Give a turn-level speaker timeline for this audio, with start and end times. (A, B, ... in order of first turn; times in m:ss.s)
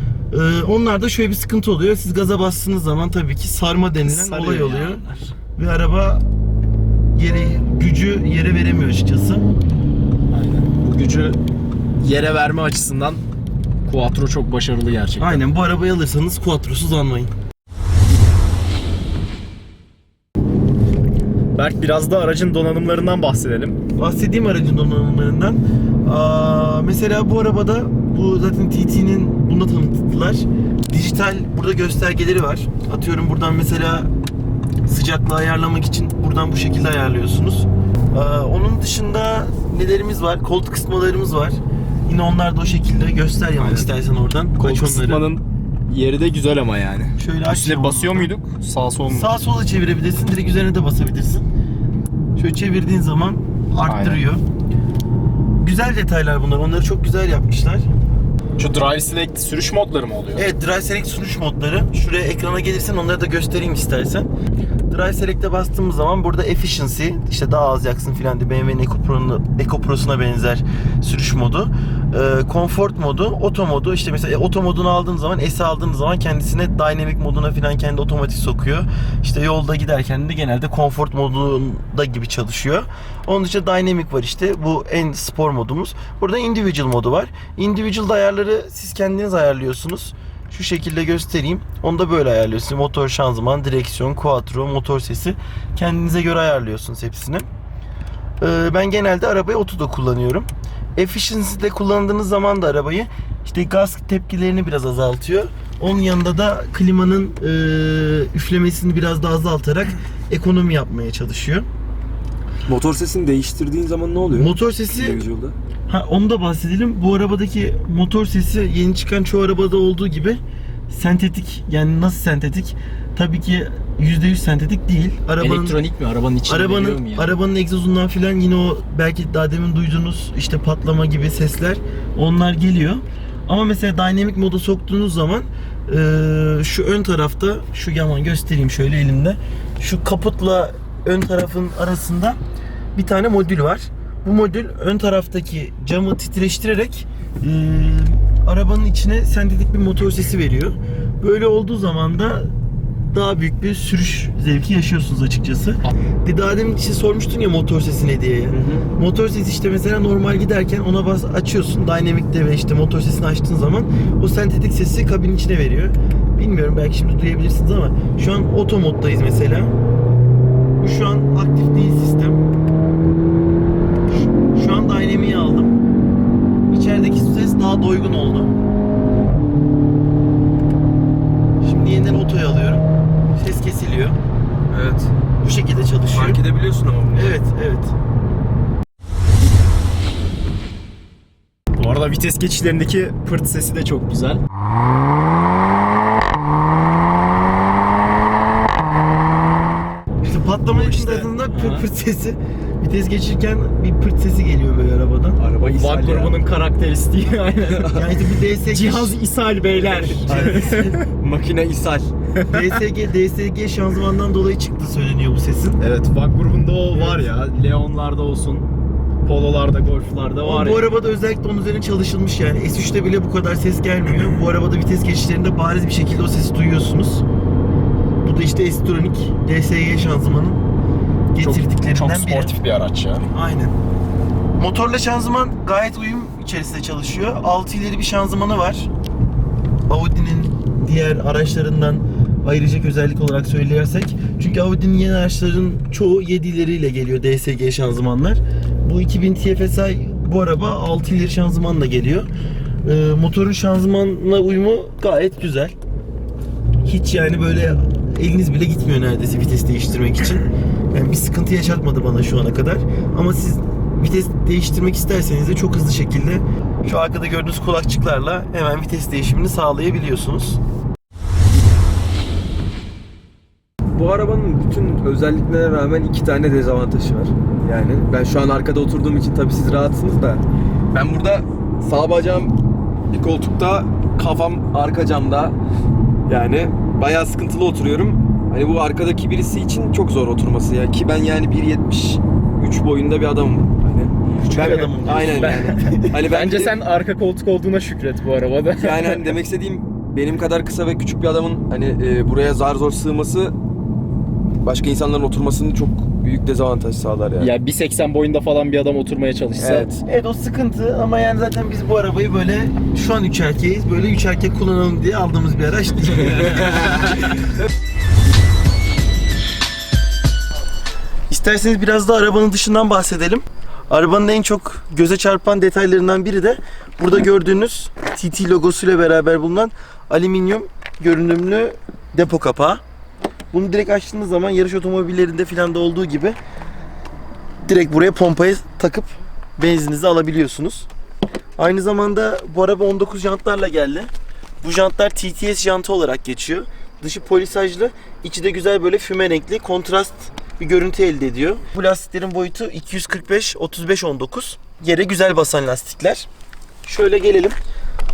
0:00.3-0:05.0 A
0:04.0-0:05.3 B
0:05.6-0:06.2 A
0:07.1-0:09.4 A
0:10.3-0:11.4 B
0:12.0-0:13.2 B
0:13.8-0:15.4 B
0:15.2-0:17.3 A
0:21.6-0:23.8 B
0:24.0-0:34.1 A
0:34.8-0:45.2 A
0:43.6-0:43.9 B
0:44.6-0:49.3 B
0:47.2-0:48.3 A
0:49.1-0:51.4 A
0:52.4-0:54.4 A
0:53.8-0:54.2 B
0:55.6-0:57.8 A
0:58.6-1:00.5 B
1:00.3-1:04.3 A
1:04.9-1:37.5 A
1:38.4-1:51.7 A
1:52.6-1:55.6 C
1:54.3-1:55.2 A
1:55.9-2:05.8 A
2:05.4-2:07.3 B
2:06.5-2:22.4 A
2:22.9-2:32.5 A
2:33.1-2:49.7 A
2:38.5-2:38.9 C
2:50.8-2:52.4 A
2:54.5-2:55.8 A
2:56.7-2:58.5 A
3:01.6-3:04.2 A
3:04.7-3:05.1 C
3:05.4-3:06.4 A
3:06.1-3:07.4 C
3:07.1-3:07.9 A
3:11.7-3:14.4 B
3:20.2-3:25.4 A
3:20.7-3:21.8 B
3:25.4-3:26.4 C
3:25.6-3:28.1 B
3:27.6-3:28.1 C
3:27.9-3:29.2 A
3:28.6-3:31.0 B
3:30.2-3:31.0 A
3:30.2-3:32.1 C
3:32.5-3:35.8 A
3:35.8-3:38.7 B
3:39.2-3:40.9 B
3:40.4-3:47.2 A
3:48.2-3:50.6 A
3:51.3-3:52.5 A
3:51.4-3:53.3 B
3:53.3-3:53.8 A
3:54.6-3:58.9 A
3:59.9-4:12.3 A
4:12.8-4:15.7 A
4:16.8-4:30.6 A
4:33.9-4:42.5 C
4:43.1-4:45.6 C
4:46.2-4:56.8 C
4:54.4-4:55.8 A
4:54.7-4:59.4 B
4:58.8-5:03.5 C
5:04.6-5:07.5 C
5:07.4-5:09.9 B
5:09.6-5:10.0 C
5:10.0-5:17.0 A
5:16.8-5:17.2 B
5:21.3-5:32.8 A
5:33.5-5:36.4 A
5:37.6-5:40.9 A
5:41.6-5:44.1 A
5:44.6-5:56.3 A
5:56.8-5:57.6 A